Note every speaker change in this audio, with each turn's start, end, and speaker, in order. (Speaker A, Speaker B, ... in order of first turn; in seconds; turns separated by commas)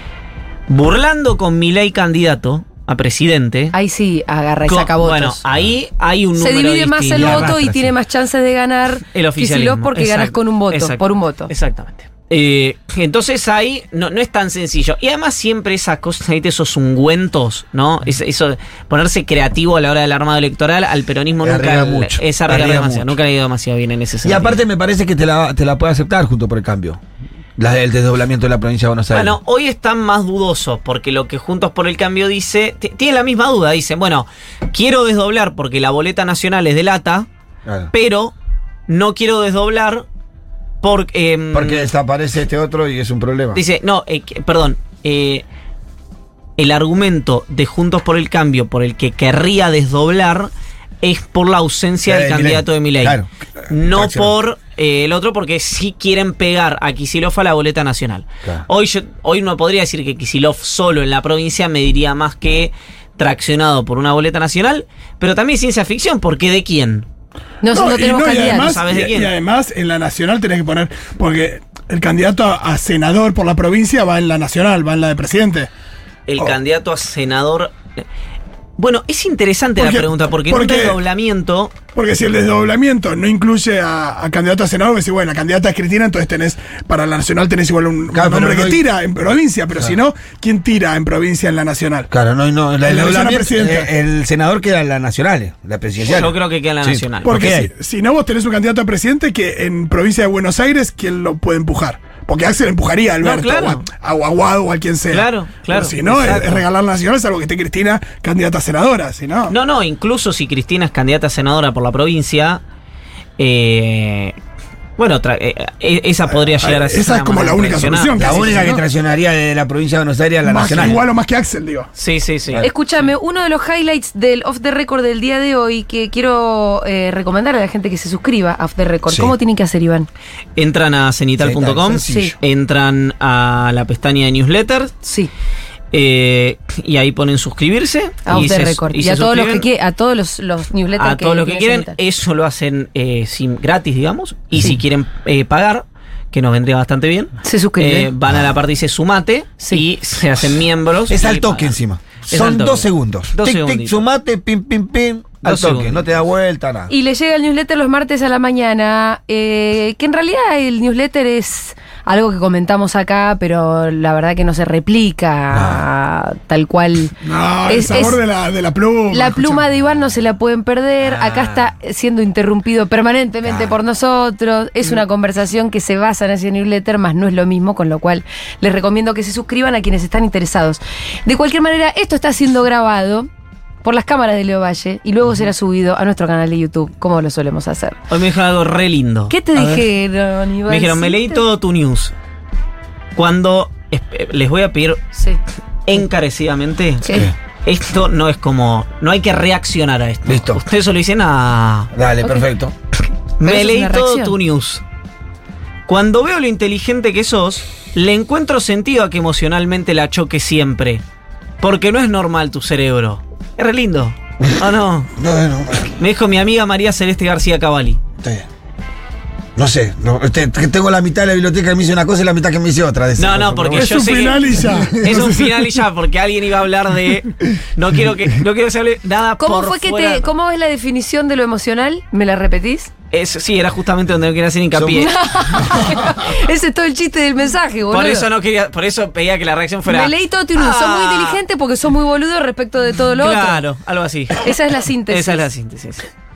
Speaker A: 0.7-3.7, Speaker B: 3.7-5.4, Speaker A: 4.7-7.5, Speaker B: 6.4-11.5, Speaker C: 7.1-7.9, Speaker A: 9.1-24.6, Speaker C: 21.4-23.1, Speaker C: 24.2-27.0, Speaker C: 27.6-29.4, Speaker A: 29.1-37.3, Speaker A: 37.9-38.3, Speaker A: 38.9-40.0, Speaker A: 40.8-41.9, Speaker C: 41.5-43.6, Speaker A: 43.5-45.4, Speaker A: 46.6-50.5, Speaker A: 51.0-67.0, Speaker C: 52.0-54.3, Speaker B: 67.6-68.7, Speaker D: 67.7-75.7, Speaker A: 68.5-69.3, Speaker A: 76.3-78.0, Speaker A: 78.8-81.7, Speaker D: 79.8-81.0, Speaker D: 81.9-92.1, Speaker C: 88.1-88.8, Speaker C: 92.1-97.7, Speaker D: 92.8-93.9, Speaker A: 96.0-97.4, Speaker D: 97.2-109.5, Speaker A: 103.2-103.9, Speaker A: 105.1-106.7, Speaker A: 109.5-112.6, Speaker A: 113.4-114.3, Speaker A: 115.0-118.7, Speaker D: 116.5-118.8, Speaker C: 118.1-121.0, Speaker D: 120.5-121.9, Speaker A: 120.7-121.0, Speaker A: 122.0-122.6, Speaker B: 122.6-130.1, Speaker C: 129.1-129.3, Speaker A: 130.6-134.9, Speaker C: 131.4-132.4, Speaker B: 132.1-132.3, Speaker B: 135.0-135.3, Speaker A: 135.9-139.7, Speaker B: 138.2-141.9, Speaker A: 141.0-151.7, Speaker B: 147.4-148.1, Speaker C: 151.1-156.9, Speaker A: 152.3-154.0, Speaker A: 155.4-156.0, Speaker B: 156.9-167.2, Speaker C: 165.5-165.8, Speaker D: 167.2-169.6, Speaker B: 167.7-168.2, Speaker B: 169.1-183.3, Speaker C: 171.1-171.6, Speaker C: 173.4-173.7, Speaker B: 183.8-188.0, Speaker A: 188.1-189.8, Speaker B: 189.3-191.4, Speaker A: 190.7-192.1, Speaker A: 193.1-195.0, Speaker B: 195.1-195.4, Speaker A: 195.8-201.9, Speaker B: 197.0-197.3, Speaker C: 200.2-200.6, Speaker C: 201.9-202.7, Speaker A: 203.4-204.8, Speaker B: 203.4-204.3, Speaker A: 205.9-211.0, Speaker A: 211.6-215.1, Speaker C: 215.2-216.0, Speaker A: 216.0-218.0, Speaker C: 218.2-218.4, Speaker C: 219.6-224.1, Speaker A: 223.2-230.3, Speaker D: 223.7-225.7, Speaker C: 224.7-225.1, Speaker B: 229.4-232.9, Speaker A: 233.1-235.2, Speaker C: 234.7-235.7, Speaker B: 234.9-238.3, Speaker A: 237.9-241.4, Speaker B: 239.8-243.6, Speaker A: 243.2-244.5, Speaker B: 244.4-245.4, Speaker A: 245.1-246.1